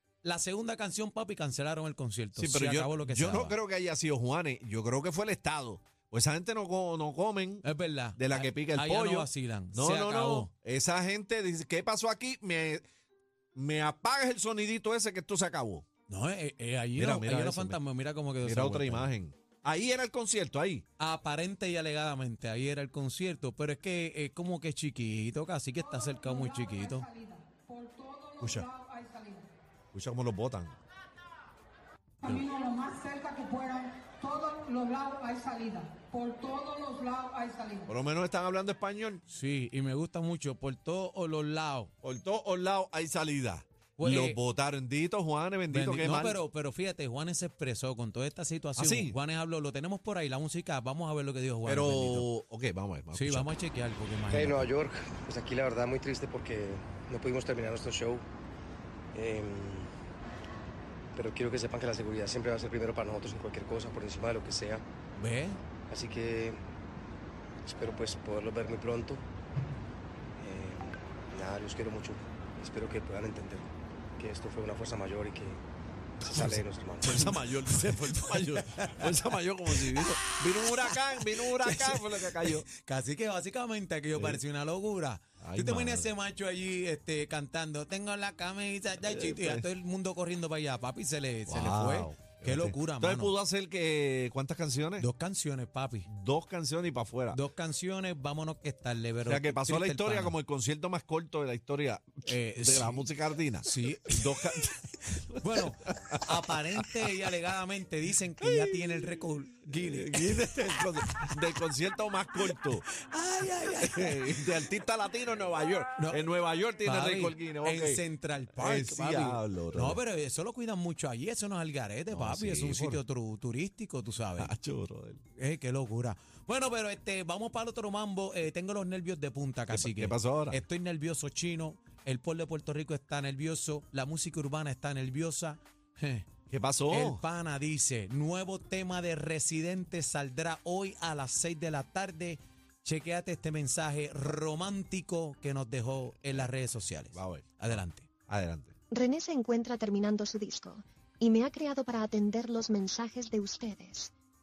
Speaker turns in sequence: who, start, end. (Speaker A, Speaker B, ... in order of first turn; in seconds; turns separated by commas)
Speaker A: 0.2-3.6, Speaker B: 2.4-12.8, Speaker A: 7.6-10.5, Speaker B: 13.5-15.8, Speaker A: 16.1-19.1, Speaker B: 16.9-17.8, Speaker B: 18.4-20.8, Speaker A: 21.0-27.1, Speaker C: 27.8-28.3, Speaker B: 28.4-28.7, Speaker C: 29.0-29.3, Speaker B: 29.9-30.7, Speaker B: 32.2-32.6, Speaker C: 32.5-37.7, Speaker B: 37.8-39.2, Speaker A: 39.3-41.9, Speaker B: 42.0-46.4, Speaker A: 44.0-44.4, Speaker A: 45.7-52.3, Speaker B: 48.8-49.1, Speaker B: 51.6-53.5, Speaker A: 53.1-54.7, Speaker D: 54.3-58.2, Speaker D: 59.1-59.9, Speaker D: 61.1-64.8, Speaker A: 65.2-65.6, Speaker D: 65.9-66.6, Speaker D: 67.7-69.2, Speaker D: 70.4-75.6, Speaker D: 76.2-77.2, Speaker B: 76.3-82.6, Speaker A: 77.7-93.3, Speaker B: 84.2-84.4, Speaker B: 85.4-86.1, Speaker B: 89.0-89.7, Speaker B: 91.5-95.1, Speaker A: 95.0-96.1, Speaker B: 96.1-97.4, Speaker A: 97.3-100.3, Speaker B: 99.2-107.1, Speaker A: 102.3-103.0, Speaker A: 103.6-110.5, Speaker B: 108.4-109.1, Speaker B: 109.7-112.8, Speaker A: 112.5-114.5, Speaker B: 113.8-118.0, Speaker A: 116.0-116.2, Speaker A: 116.8-124.5, Speaker B: 118.5-120.0, Speaker B: 122.1-123.0, Speaker B: 124.4-125.2, Speaker A: 125.3-136.3, Speaker B: 129.7-130.6, Speaker B: 136.5-137.2, Speaker A: 136.9-148.1, Speaker B: 147.1-148.7, Speaker E: 148.9-154.1